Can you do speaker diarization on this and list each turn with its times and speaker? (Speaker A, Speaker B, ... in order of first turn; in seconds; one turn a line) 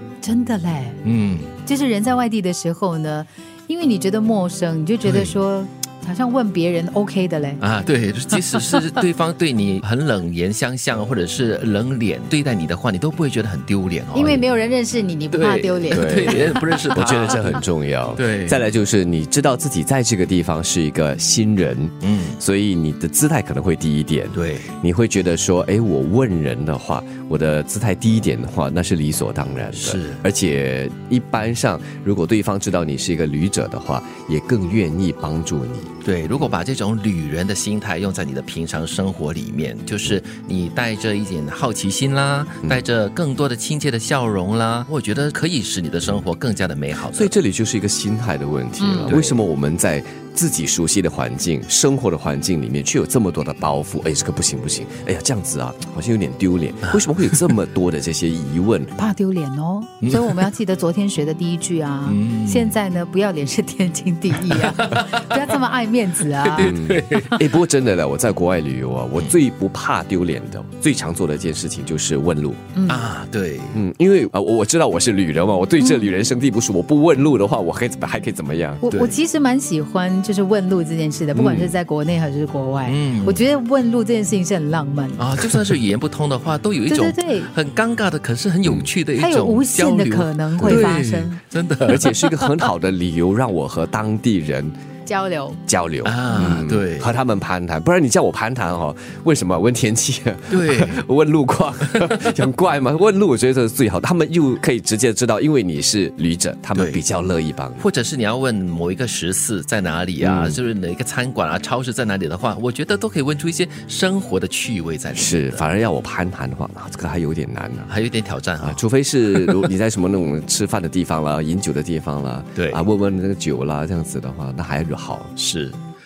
Speaker A: 0.2-1.0
Speaker B: 1.0-1.5
Speaker A: 1.6-7.6
Speaker B: 5.0-5.3
Speaker B: 7.6-14.4
Speaker A: 14.1-16.9
Speaker B: 15.3-18.6
Speaker C: 15.9-35.9
Speaker B: 22.0-22.4
Speaker B: 24.3-24.7
Speaker B: 29.7-30.2
Speaker B: 36.0-47.3
Speaker C: 47.1-58.9
Speaker A: 48.8-49.2
Speaker B: 49.0-49.4
Speaker A: 59.0-66.8
Speaker B: 60.0-60.5
Speaker B: 62.0-62.8
Speaker B: 64.5-65.0
Speaker B: 66.4-67.5
Speaker C: 66.6-72.7
Speaker A: 72.7-73.0
Speaker B: 72.9-73.8
Speaker C: 73.7-78.8
Speaker A: 75.8-76.1
Speaker A: 78.8-85.4
Speaker B: 78.9-79.2
Speaker C: 81.3-81.8
Speaker B: 82.8-83.4
Speaker B: 85.2-92.1
Speaker A: 86.8-87.5
Speaker A: 89.2-91.4
Speaker C: 90.6-90.9
Speaker C: 91.8-94.7
Speaker A: 95.0-95.6
Speaker C: 95.7-107.8
Speaker B: 96.0-97.1
Speaker B: 100.5-101.0
Speaker B: 106.7-107.0
Speaker B: 107.8-115.6
Speaker C: 110.2-110.6
Speaker C: 115.1-117.9
Speaker B: 117.9-119.7
Speaker C: 118.6-125.3
Speaker B: 122.5-122.8
Speaker B: 125.3-125.8